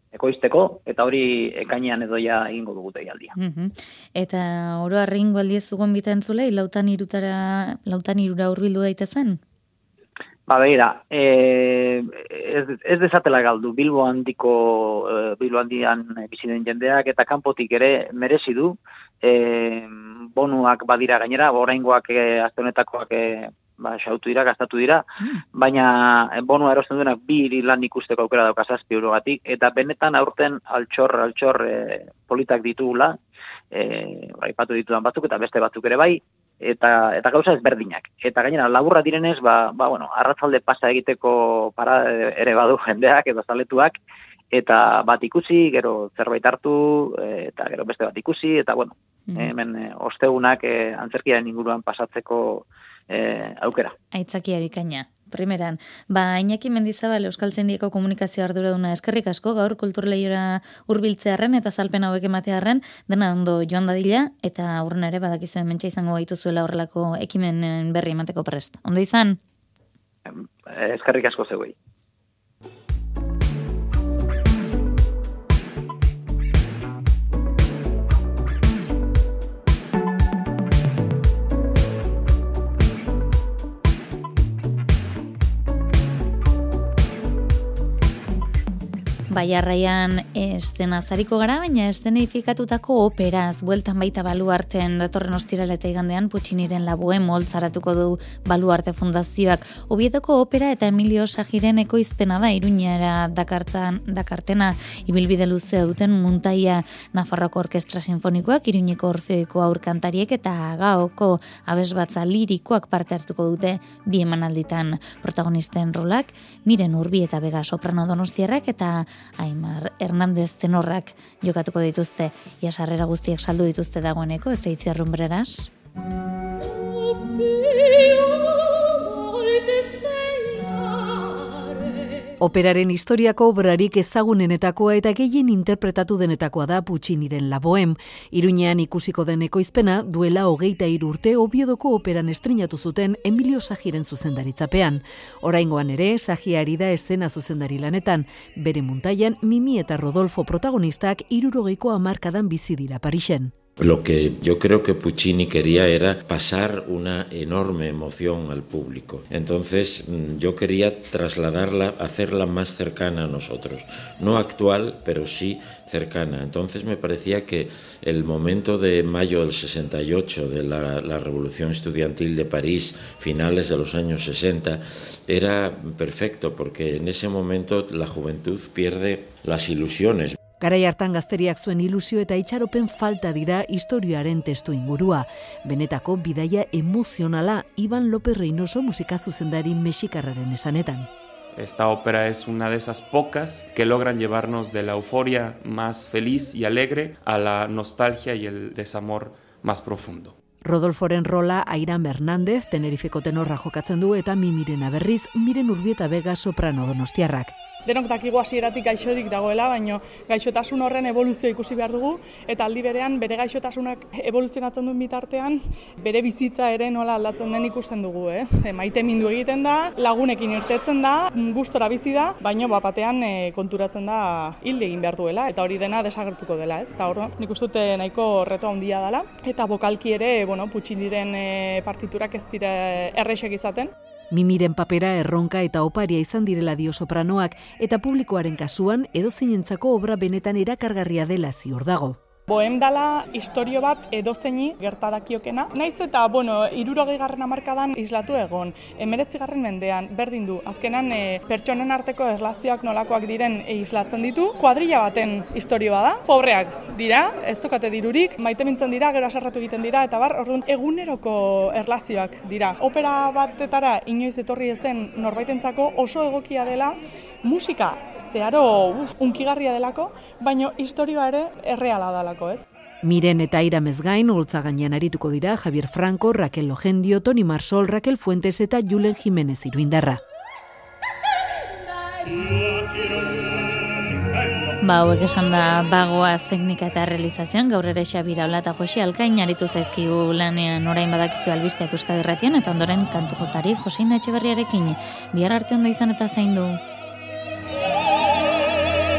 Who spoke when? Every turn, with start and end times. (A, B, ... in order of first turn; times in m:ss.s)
0:00.1-0:03.3 A
0:03.4-0:09.4 B
0:10.5-0:25.0 A
0:25.6-0:33.2 A
0:33.7-0:44.0 A
0:44.5-0:53.9 A
0:54.1-1:09.4 B
1:10.3-1:11.7 A
1:29.3-2:05.7 B
2:12.4-2:33.5 C
2:33.8-3:00.4 D
3:00.6-3:11.1 C
3:11.5-3:20.3 E
3:20.6-3:27.5 C
3:27.8-3:53.9 F
3:54.3-4:02.2 C
4:02.5-4:32.6 F
4:33.0-4:40.2 C
4:44.8-4:56.8 B